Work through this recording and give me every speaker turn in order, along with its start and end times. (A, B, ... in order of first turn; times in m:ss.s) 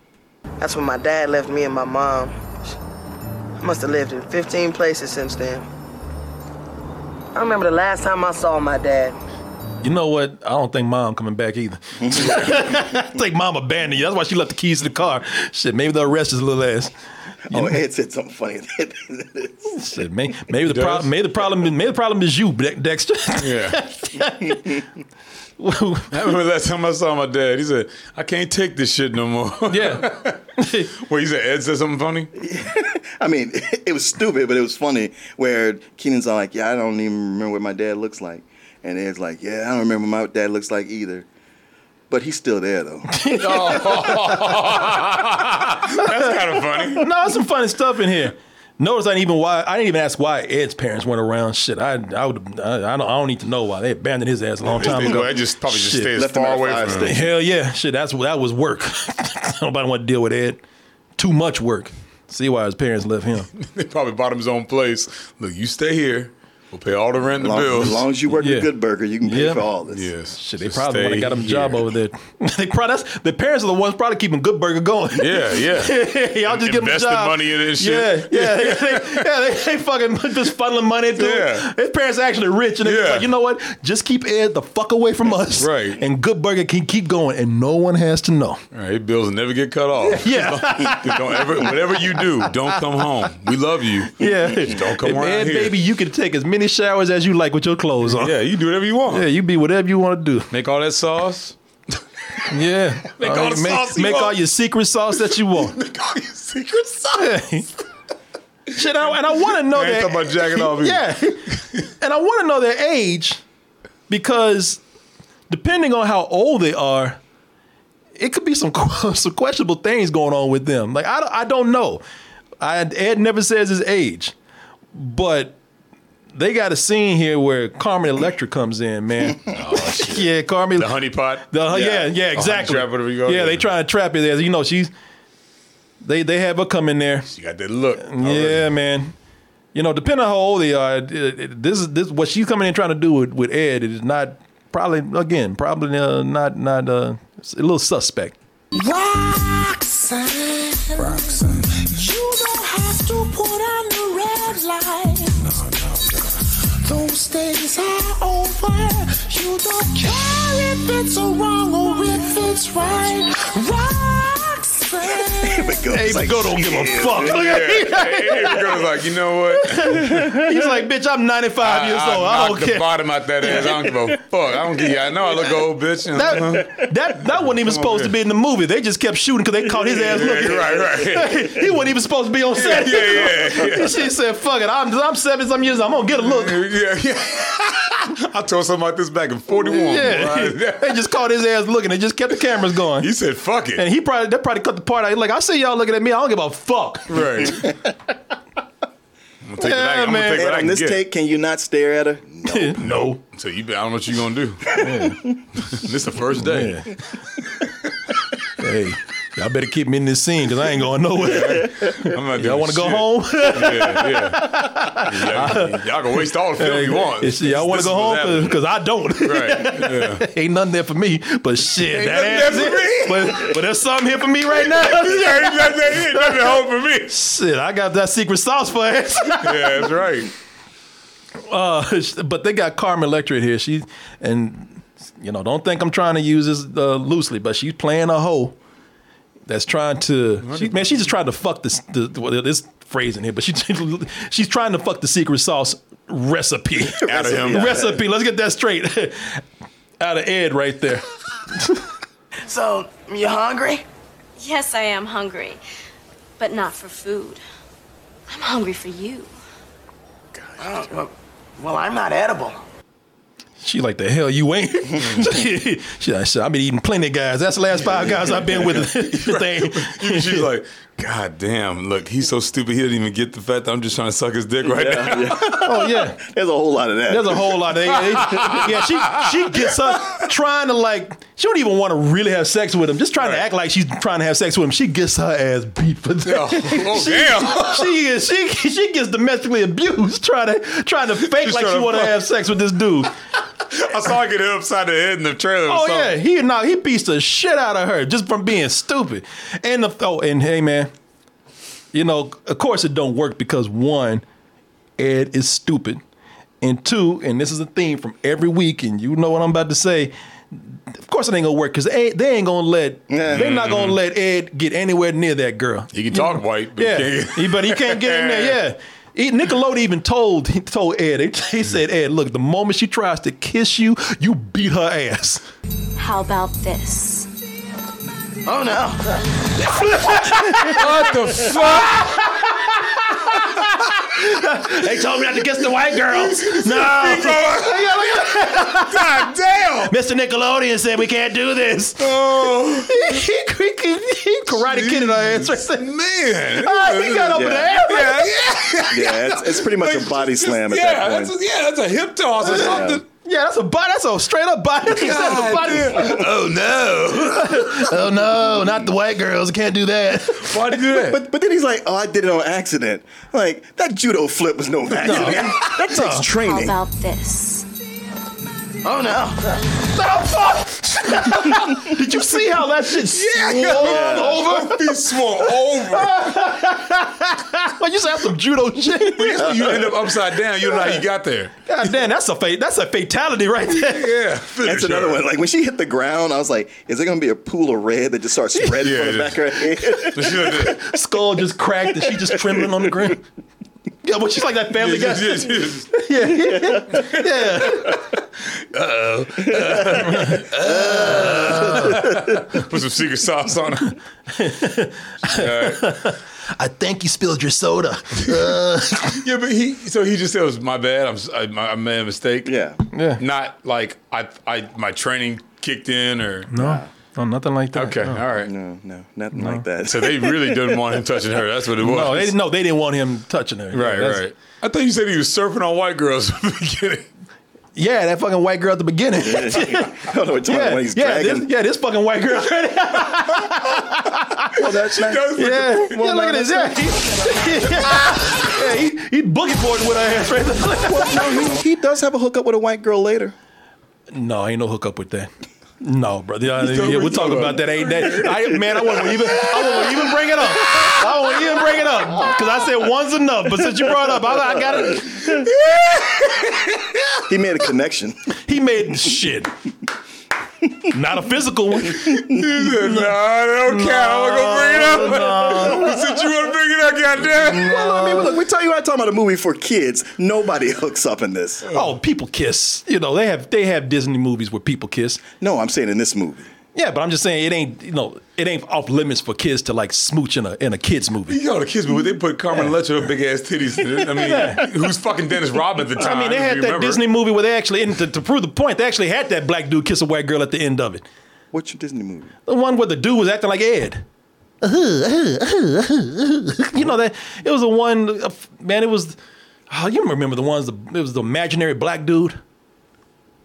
0:00.6-0:02.4 A
0:03.6-0:05.7 A
0:07.3-0:09.2 A
0:09.8-0:16.9 B
0:12.0-0:12.8 C
0:17.5-0:17.8 B
0:17.5-0:19.8 C
0:19.7-0:24.8 B
0:20.6-0:21.1 D
0:23.4-0:23.8 D
0:24.5-0:24.8 C
0:25.6-0:26.1 B
0:26.1-0:30.4 D
0:29.7-0:30.9 B
0:31.0-0:32.3 D
0:32.4-0:41.3 C
0:42.1-0:43.8 C
0:43.1-0:44.4 B
0:43.4-0:47.0 D
0:45.9-0:56.1 B
0:54.7-0:57.2 D
0:56.1-0:57.3 C
0:57.0-1:00.6 B
1:01.2-1:03.5 B
1:03.6-1:08.0 D
1:07.4-1:10.1 C
1:08.4-1:08.7 B
1:09.2-1:09.7 B
1:09.9-1:11.9 D
1:10.4-1:28.6 B
1:15.2-1:19.3 D
1:21.2-1:21.7 D
1:22.8-1:23.3 D
1:25.6-1:26.0 D
1:28.7-1:35.8 D
1:30.1-1:32.5 B
1:34.2-1:38.3 B
1:38.0-1:39.3 D
1:39.1-1:40.5 B
1:40.5-1:41.6 D
1:42.5-1:45.8 B
1:43.1-1:44.4 D
1:45.3-1:47.4 D
1:47.1-1:47.7 B
1:48.7-1:51.4 B
1:49.3-1:51.8 D
1:52.0-1:53.4 B
1:54.1-1:54.8 B
1:55.5-1:57.2 B
1:58.2-2:02.0 B
2:02.6-2:04.3 B
2:04.9-2:05.6 B
2:06.3-2:10.9 B
2:09.5-2:13.7 D
2:11.5-2:14.9 B
2:16.0-2:17.3 B
2:17.3-2:18.7 D
2:18.0-2:19.1 B
2:19.7-2:28.4 B
2:28.7-2:45.8 E
2:45.4-2:47.5 C
2:45.9-2:48.8 B
2:47.2-2:50.2 D
2:49.6-2:52.9 B
2:51.6-2:56.9 D
2:56.1-3:06.7 B
2:57.5-2:58.1 D
3:00.0-3:01.7 D
3:02.6-3:04.1 D
3:06.2-3:11.0 D
3:09.5-3:13.1 B
3:13.0-3:13.8 D
3:13.8-3:17.7 B
3:17.1-3:17.7 D
3:19.4-3:21.0 D
3:19.6-3:20.4 B
3:20.2-3:23.0 C
3:22.4-3:23.2 B
3:22.8-3:24.8 D
3:24.8-3:25.2 B
3:25.6-3:26.9 D
3:26.4-3:26.9 B
3:28.6-3:35.8 B
3:31.2-3:38.6 D
3:36.6-3:49.8 B
3:39.2-3:40.2 D
3:41.9-3:43.6 D
3:44.6-3:47.1 D
3:49.4-3:50.3 D
3:51.5-3:58.6 B
3:59.5-4:09.4 B
4:00.4-4:01.0 D
4:07.0-4:08.0 C
4:07.0-4:07.8 D
4:10.0-4:11.8 B
4:12.4-4:13.8 A
4:14.4-4:15.6 F
4:16.4-4:17.4 F
4:18.3-4:19.3 F
4:20.6-4:22.6 A
4:23.6-4:30.5 B
4:25.0-4:25.3 D
4:28.0-4:35.6 D
4:34.6-4:37.9 C
4:35.6-4:36.2 B
4:37.1-4:53.1 B
4:38.1-4:39.3 D
4:43.2-4:43.4 D
4:46.2-4:47.9 D
4:51.2-4:52.2 D
4:53.7-4:56.1 D
4:55.7-5:00.9 B
5:01.9-5:04.2 B
5:05.0-5:06.0 B
5:06.6-5:25.4 B
5:13.1-5:13.5 C
5:13.3-5:14.0 D
5:15.9-5:18.6 D
5:26.0-5:27.3 F
5:28.4-5:29.2 A
5:29.8-5:30.9 B
5:30.6-5:32.3 D
5:33.1-5:39.3 B
5:36.0-5:39.9 D
5:39.9-5:42.2 B
5:42.0-5:43.2 D
5:42.8-5:45.9 B
5:44.5-5:53.0 D
5:46.6-5:48.3 B
5:47.3-5:47.8 C
5:48.9-5:51.4 C
5:52.5-5:53.0 C
5:52.5-5:56.2 B
5:54.9-5:57.9 D
5:57.2-6:00.6 B
6:00.4-6:01.2 D
6:00.7-6:06.8 C
6:05.0-6:06.3 B
6:05.1-6:05.7 D
6:06.2-6:07.7 F
6:08.8-6:09.6 A
6:10.0-6:14.9 B
6:13.1-6:16.2 D
6:13.7-6:14.5 C
6:15.9-6:19.7 B
6:19.0-6:21.9 D
6:19.4-6:19.9 C
6:21.7-6:24.1 B
6:23.7-6:25.2 D
6:24.6-6:30.7 C
6:28.8-6:30.8 D
6:30.6-6:33.2 B
6:32.0-6:32.9 C
6:34.0-6:38.0 B
6:34.7-6:35.9 D
6:36.9-6:38.1 D
6:38.7-6:44.0 D
6:39.6-6:42.1 B
6:40.7-6:41.9 C
6:44.3-6:49.2 B
6:45.3-6:45.9 D
6:49.2-6:52.5 D
6:52.4-6:52.8 C
6:52.9-6:53.2 B
6:53.2-6:56.5 D
6:56.5-6:58.2 B
6:56.5-6:56.9 C
6:57.7-6:58.5 D
6:58.3-7:00.8 C
6:59.3-6:59.6 B
6:59.8-7:02.3 D
7:01.8-7:04.2 B
7:03.7-7:07.1 D
7:07.8-7:14.6 B
7:09.2-7:11.5 C
7:14.5-7:17.2 C
7:14.9-7:16.0 D
7:15.3-7:21.4 B
7:20.9-7:23.3 C
7:24.1-7:25.3 B
7:25.8-7:35.4 B
7:26.6-7:29.9 D
7:35.2-7:36.9 D
7:37.3-7:38.2 C
7:38.5-7:39.5 B
7:40.9-7:43.1 B
7:42.0-7:47.7 D
7:43.7-7:45.9 B
7:47.3-7:51.7 C
7:47.5-7:48.4 B
7:51.7-7:55.2 B
7:55.4-7:56.5 C
7:56.7-8:01.4 B
8:01.3-8:07.0 D
8:04.1-8:04.7 B
8:06.0-8:11.0 B
8:11.5-8:12.3 C
8:12.5-8:14.0 B
8:14.6-8:19.1 B
8:19.7-8:22.4 B